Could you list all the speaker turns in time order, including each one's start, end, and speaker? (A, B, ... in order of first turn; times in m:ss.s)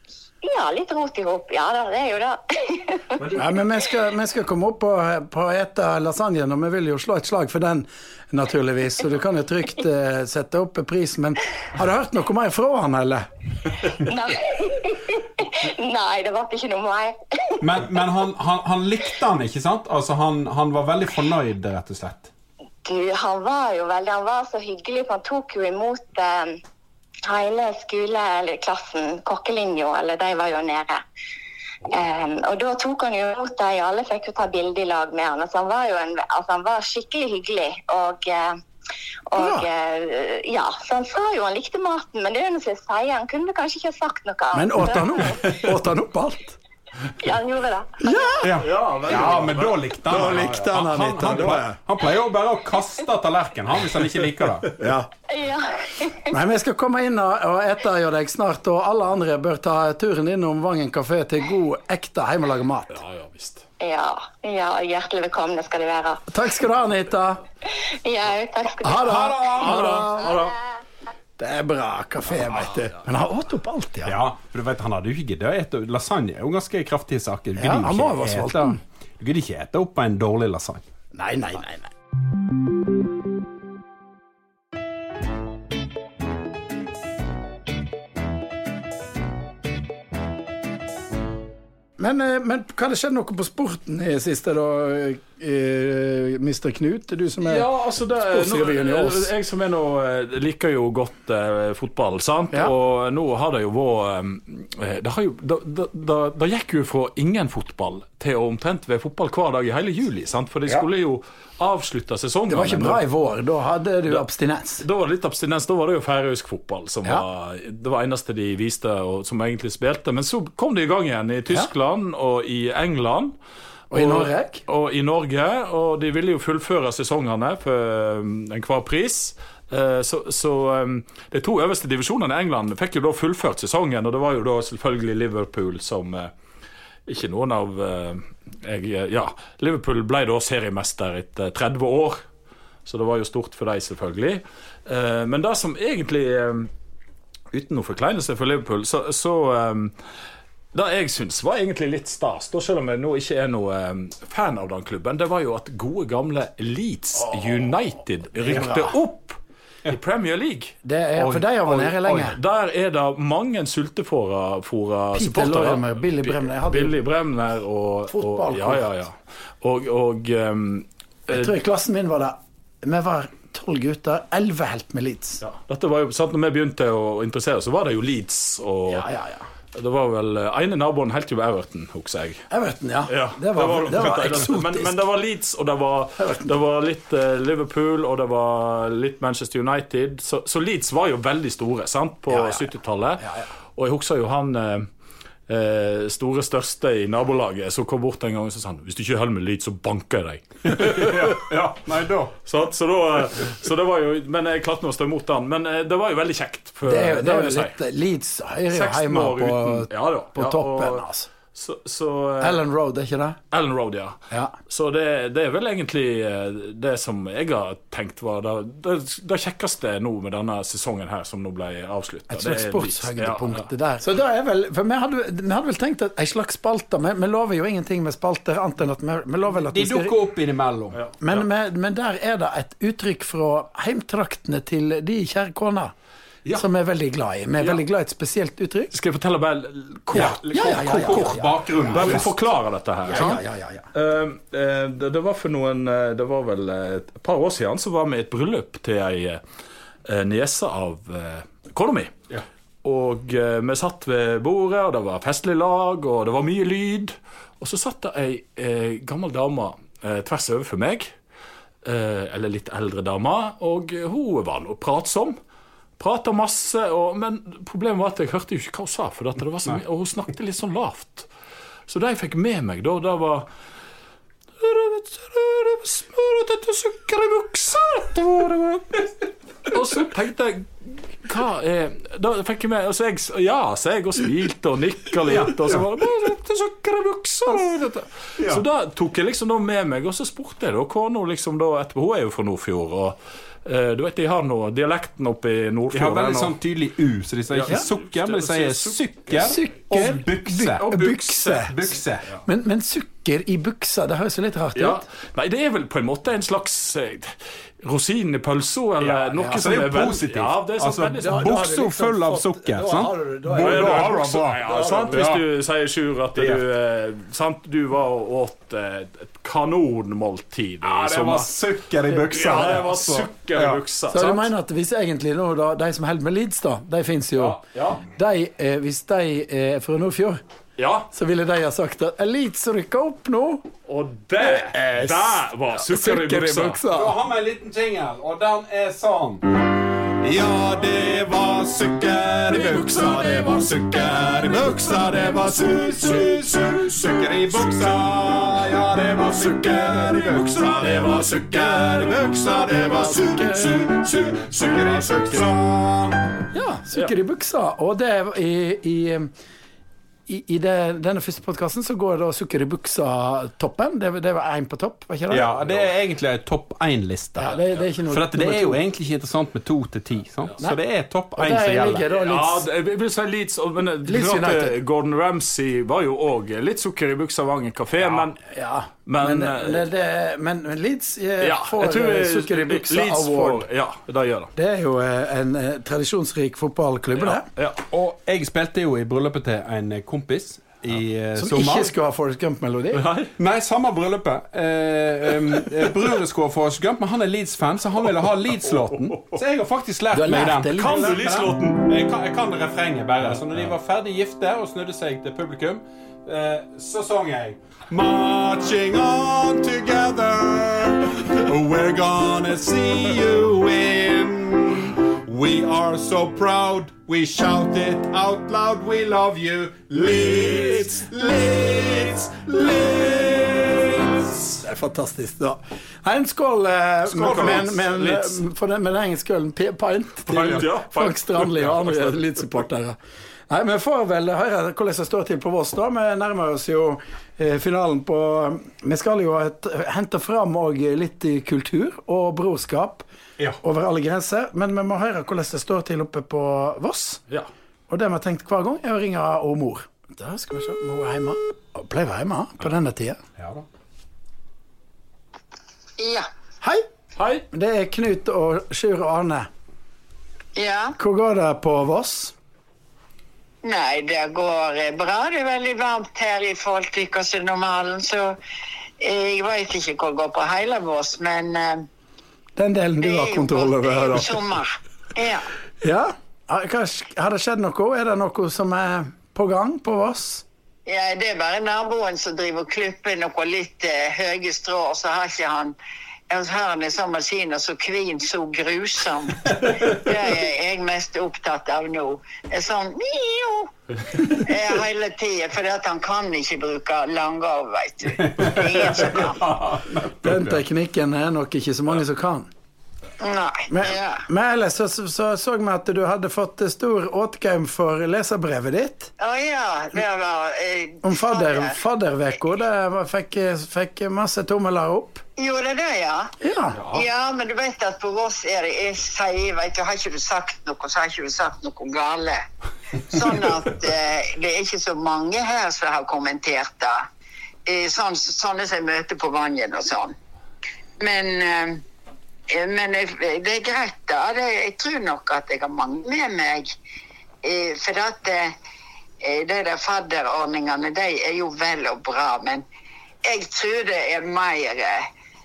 0:00.4-0:03.2 A
0:03.3-0:13.2 B
0:13.9-0:17.6 A
0:17.6-0:22.3 C
0:22.8-0:26.6 A
0:27.2-0:31.0 A
0:31.9-0:38.6 A
0:39.3-0:45.6 A
0:39.4-0:39.7 B
0:44.5-0:46.6 B
0:47.1-0:48.5 A
0:48.0-0:48.5 B
0:48.4-0:54.8 C
0:48.6-0:50.5 D
0:50.0-0:51.8 B
0:54.8-0:55.1 B
0:55.3-0:56.3 A
0:56.3-1:03.0 B
1:02.9-1:03.6 D
1:03.8-1:06.2 A
1:06.3-1:07.4 B
1:07.6-1:09.1 A
1:08.8-1:10.4 B
1:09.0-1:10.0 C
1:09.5-1:10.5 D
1:11.4-1:14.2 B
1:12.6-1:12.9 D
1:14.0-1:20.8 C
1:17.6-1:18.8 B
1:21.1-1:21.9 B
1:32.0-1:39.3 B
1:37.4-1:53.0 D
1:52.5-1:54.8 B
1:54.8-2:03.3 D
2:03.9-2:16.3 D
2:03.9-2:04.6 B
2:17.0-2:22.2 D
2:22.8-2:26.7 D
2:27.5-2:30.0 D
2:30.7-2:51.5 D
2:37.3-2:37.5 B
2:38.4-2:39.0 B
2:40.8-2:42.4 B
2:45.1-2:47.0 B
2:48.1-2:48.9 B
2:51.3-2:55.4 B
2:55.4-2:59.1 D
2:58.9-2:59.4 B
2:59.7-3:02.5 D
3:02.5-3:05.0 B
3:03.1-3:14.9 D
3:06.2-3:06.5 B
3:12.3-3:12.7 B
3:13.2-3:13.4 B
3:15.5-3:21.4 D
3:20.7-3:22.3 C
3:22.4-3:27.7 D
3:26.8-3:31.3 B
3:28.7-3:32.6 D
3:32.4-3:33.4 B
3:33.5-3:43.7 D
3:42.3-3:50.1 B
3:49.7-3:51.0 C
3:50.9-3:51.5 D
3:51.2-3:55.9 B
3:56.5-3:58.9 B
3:58.9-4:09.4 D
4:00.1-4:02.3 C
4:00.1-4:02.3 B
4:03.1-4:03.8 B
4:10.0-4:12.2 D
4:12.8-4:21.1 D
4:21.8-4:25.4 D
4:26.0-4:31.3 D
4:31.9-4:33.5 D
4:34.6-4:39.0 D
4:39.6-4:56.6 D
4:45.3-4:45.9 C
4:47.5-4:48.6 C
4:55.9-5:02.3 C
4:57.5-4:59.6 D
4:59.3-5:05.0 B
5:00.8-5:01.6 D
5:04.8-5:11.6 D
5:09.2-5:15.4 C
5:11.2-5:15.2 B
5:13.5-5:21.5 D
5:16.4-5:16.6 C
5:20.8-5:23.8 C
5:22.3-5:24.5 D
5:24.1-5:30.4 B
5:27.4-5:28.0 D
5:30.8-5:31.1 D
5:31.1-5:33.6 B
5:33.9-5:36.8 D
5:34.4-5:37.2 B
5:36.9-5:39.4 C
5:40.2-5:56.3 C
5:42.5-5:47.8 D
5:49.2-5:52.2 D
5:52.8-5:53.7 B
5:56.5-5:59.3 B
6:00.3-6:05.5 B
6:05.3-6:12.1 C
6:07.4-6:08.8 B
6:11.4-6:12.6 B
6:12.1-6:18.4 D
6:14.0-6:14.7 B
6:18.4-6:23.6 B
6:19.1-6:19.8 D
6:21.4-6:24.5 D
6:24.5-6:27.5 B
6:27.2-6:27.8 D
6:27.9-6:31.9 C
6:31.4-6:33.0 B
6:32.9-6:33.3 D
6:33.4-7:04.6 C
6:40.1-6:41.1 B
6:40.8-6:41.8 D
7:00.4-7:01.0 D
7:04.6-7:13.0 B
7:07.1-7:07.8 C
7:07.2-7:08.4 D
7:10.3-7:12.2 D
7:10.4-7:10.6 C
7:13.5-7:23.0 B
7:23.6-7:27.2 B
7:27.9-7:33.2 B
7:33.4-7:33.6 C
7:36.0-7:36.3 E
7:37.2-7:37.4 D
7:37.5-7:39.5 B
7:40.6-7:41.0 E
7:41.0-7:42.3 B
7:43.6-7:48.4 E
7:49.0-7:51.8 E
7:52.6-7:54.4 B
7:53.0-7:55.5 E
7:55.8-8:00.4 B
8:00.8-8:05.7 E
8:06.3-8:19.4 E
8:18.2-8:20.6 C
8:20.2-8:22.5 B
8:23.2-8:24.2 E
8:23.7-8:29.1 B
8:29.2-8:31.8 E
8:31.0-8:35.2 B
8:35.4-8:36.3 E
8:36.4-8:36.8 B
8:36.7-8:37.0 D
8:36.9-8:42.4 E
8:43.0-8:47.0 E
8:47.6-8:50.1 E
8:51.0-8:51.8 E
8:52.5-8:56.7 E
8:57.4-8:58.5 E
8:59.2-9:02.6 E
9:03.2-9:05.0 E